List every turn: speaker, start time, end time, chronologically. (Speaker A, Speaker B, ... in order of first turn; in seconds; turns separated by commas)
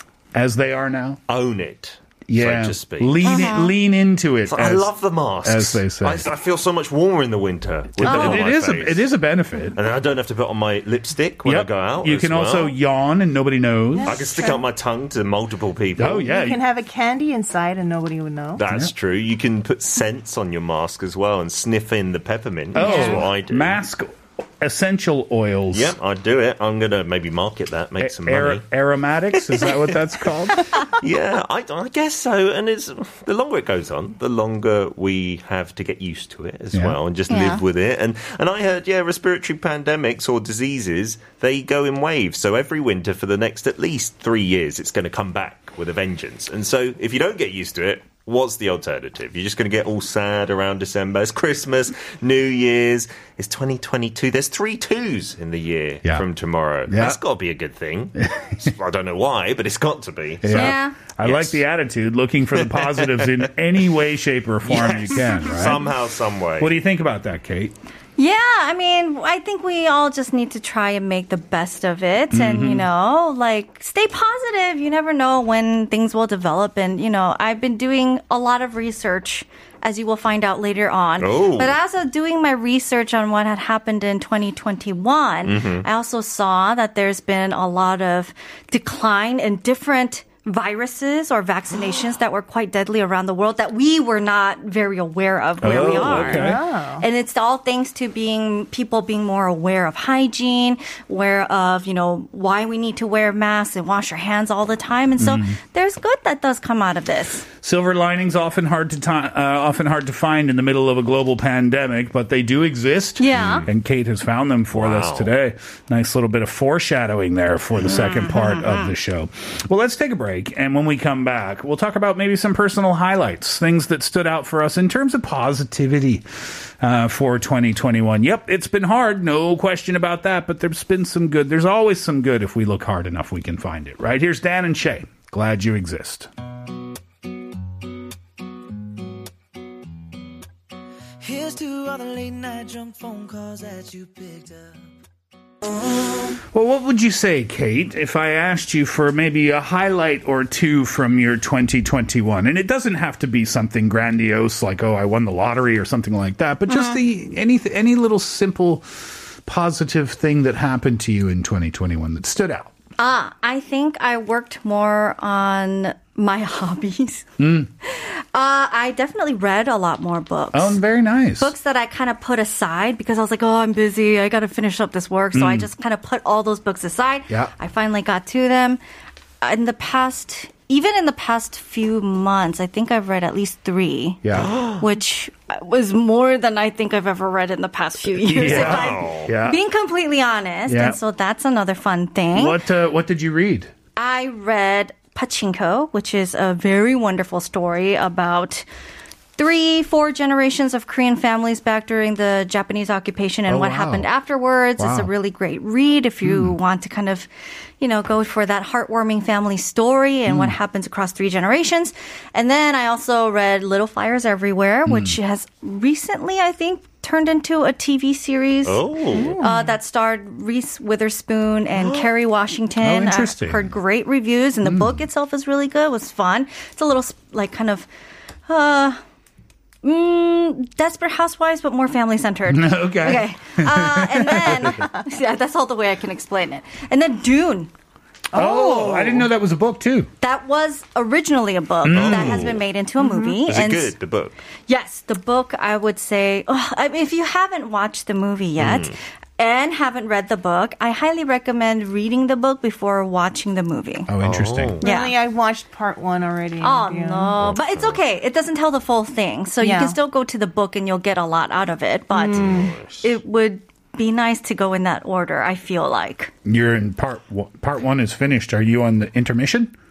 Speaker A: 0.3-1.2, Speaker B: 1.3-3.5, Speaker A: 2.3-4.9, Speaker C: 3.2-3.7, Speaker B: 4.5-9.1, Speaker A: 5.4-6.3, Speaker A: 8.0-9.8, Speaker B: 9.8-12.7, Speaker A: 11.4-14.2, Speaker D: 14.0-14.6, Speaker B: 14.1-16.3, Speaker A: 16.0-16.6, Speaker D: 16.3-18.6, Speaker B: 18.6-23.8, Speaker A: 22.7-25.9, Speaker C: 22.8-23.2, Speaker B: 25.7-28.6, Speaker A: 28.0-30.7, Speaker B: 29.3-61.6, Speaker C: 37.3-37.6, Speaker A: 56.9-57.2, Speaker A: 58.2-58.7, Speaker A: 60.4-65.9, Speaker C: 60.5-61.0, Speaker B: 62.6-63.4, Speaker B: 64.7-66.7, Speaker A: 66.6-67.7, Speaker C: 68.2-107.5, Speaker A: 72.3-72.9, Speaker B: 81.2-81.8, Speaker B: 85.5-85.9, Speaker A: 95.6-96.6, Speaker B: 95.7-96.5, Speaker D: 96.3-97.1, Speaker A: 105.2-105.6, Speaker A: 107.6-136.3, Speaker C: 113.2-113.7, Speaker B: 113.3-113.7, Speaker B: 114.7-115.3, Speaker C: 117.9-118.9, Speaker E: 141.2-144.9, Speaker A: 146.5-162.7, Speaker C: 156.7-157.0, Speaker C: 163.0-167.3, Speaker A: 167.4-167.7, Speaker C: 167.8-170.8, Speaker A: 170.5-171.5, Speaker C: 171.4-178.8, Speaker A: 175.3-175.7, Speaker C: 179.4-184.2, Speaker A: 184.2-184.5, Speaker B: 184.4-184.8, Speaker C: 184.8-192.6, Speaker A: 188.3-189.6, Speaker B: 188.4-189.3, Speaker A: 190.7-191.0, Speaker A: 192.3-193.7, Speaker C: 194.0-198.7, Speaker C: 199.4-207.3, Speaker A: 203.5-204.1, Speaker A: 204.8-205.1, Speaker A: 206.2-206.6, Speaker C: 207.8-227.9, Speaker A: 210.3-210.6, Speaker A: 214.9-215.2, Speaker B: 218.7-219.4, Speaker D: 219.1-219.8, Speaker B: 221.8-222.1, Speaker A: 222.8-223.7, Speaker A: 224.6-225.0, Speaker C: 228.5-229.0, Speaker C: 229.8-237.7, Speaker A: 232.5-234.8, Speaker A: 238.3-240.1, Speaker D: 238.3-239.2, Speaker C: 240.2-243.9, Speaker A: 241.8-242.5, Speaker B: 241.9-242.7, Speaker D: 243.0-243.4, Speaker B: 243.4-244.3, Speaker C: 244.7-254.1, Speaker B: 248.6-249.0, Speaker A: 254.1-254.8, Speaker B: 254.2-254.8, Speaker D: 254.8-257.3, Speaker C: 254.8-255.2, Speaker C: 256.6-262.4, Speaker B: 257.4-258.0, Speaker D: 259.6-260.0, Speaker D: 262.1-262.7, Speaker B: 262.3-263.1, Speaker C: 263.0-266.3, Speaker A: 266.4-269.8